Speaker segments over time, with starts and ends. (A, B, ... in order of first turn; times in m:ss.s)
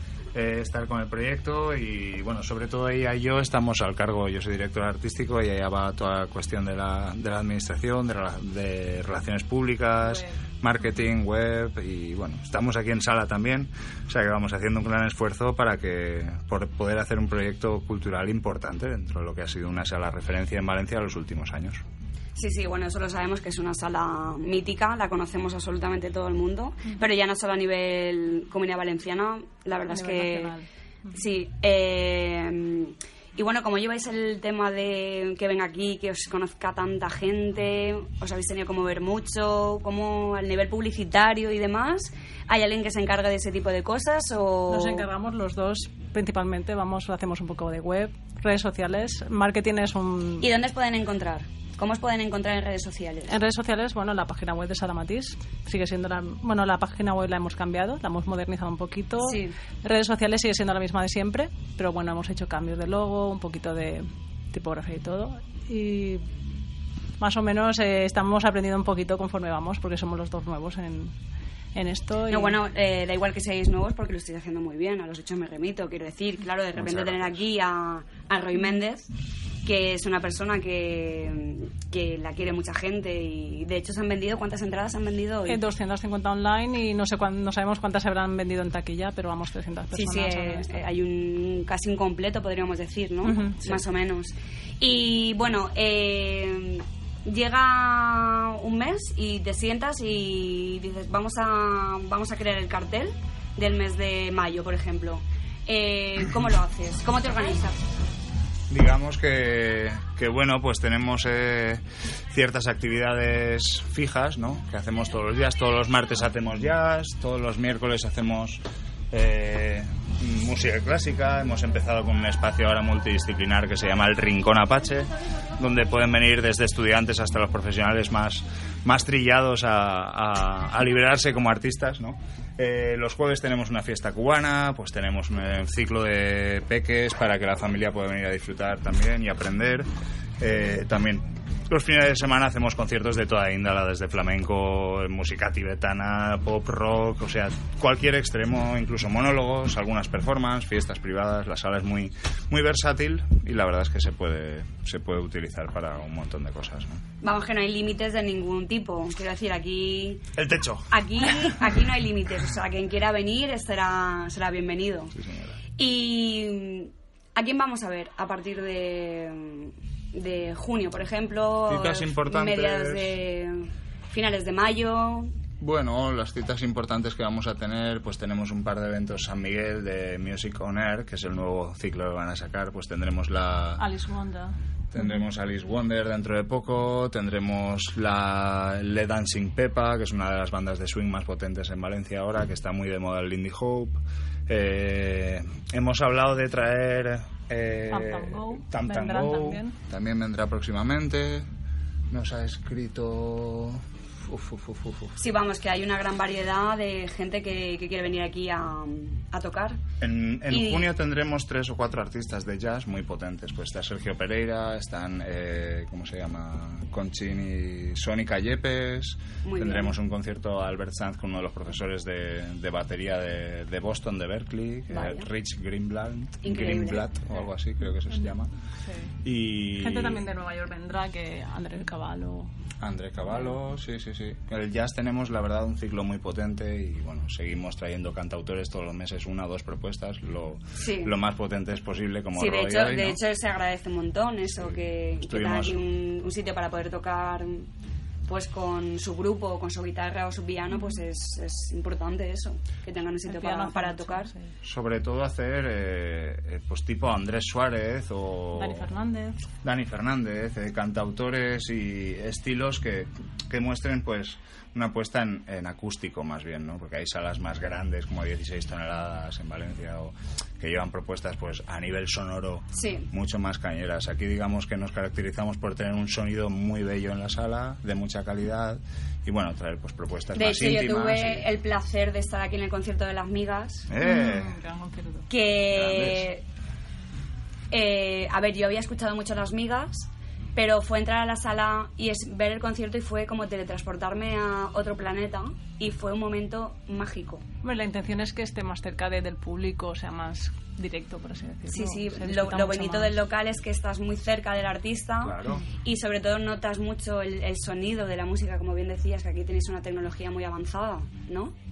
0:00.3-0:21.8 A
0:10.0-0:10.9 B
0:22.4-0:30.5 C
0:29.9-0:31.2 B
0:31.1-0:45.0 C
0:44.7-0:50.5 B
0:50.4-0:53.3 C
0:53.3-1:06.2 B
0:59.2-0:59.6 C
1:07.2-1:11.2 B
1:11.7-1:12.6 B
1:12.3-1:19.1 C
1:16.7-1:17.4 A
1:19.6-1:25.6 C
1:25.4-1:30.8 B
1:29.9-1:47.8 C
1:33.2-1:33.8 B
1:48.7-2:19.9 A
2:20.4-2:37.0 A
2:37.2-2:40.2 C
2:40.4-2:41.7 A
2:40.9-2:45.1 C
2:45.1-2:45.6 A
2:45.8-2:55.3 C
2:51.7-2:53.1 A
2:55.6-3:03.8 A
3:03.8-3:05.2 B
3:04.9-3:21.4 A
3:17.9-3:19.8 B
3:22.1-3:25.2 A
3:25.2-3:29.8 C
3:30.0-3:48.5 A
3:30.5-3:30.9 C
3:39.4-3:39.9 C
3:44.9-3:45.3 C
3:46.4-3:47.0 C
3:48.1-3:48.3 B
3:48.8-3:52.5 B
3:49.2-3:50.2 A
3:52.8-4:03.2 A
4:00.8-4:01.1 C
4:02.4-4:07.7 C
4:04.4-4:05.8 A
4:08.2-4:14.3 C
4:10.7-4:11.0 B
4:13.2-4:14.5 B
4:14.6-4:18.9 A
4:18.5-4:19.4 B
4:19.6-4:41.5 A
4:32.7-4:33.1 C
4:40.3-4:43.9 C
4:43.9-4:44.6 A
4:44.0-4:45.3 B
4:45.3-4:46.4 C
4:45.7-4:46.3 A
4:47.7-4:57.4 C
4:57.6-5:03.1 B
5:01.7-5:11.5 C
5:05.2-5:05.6 A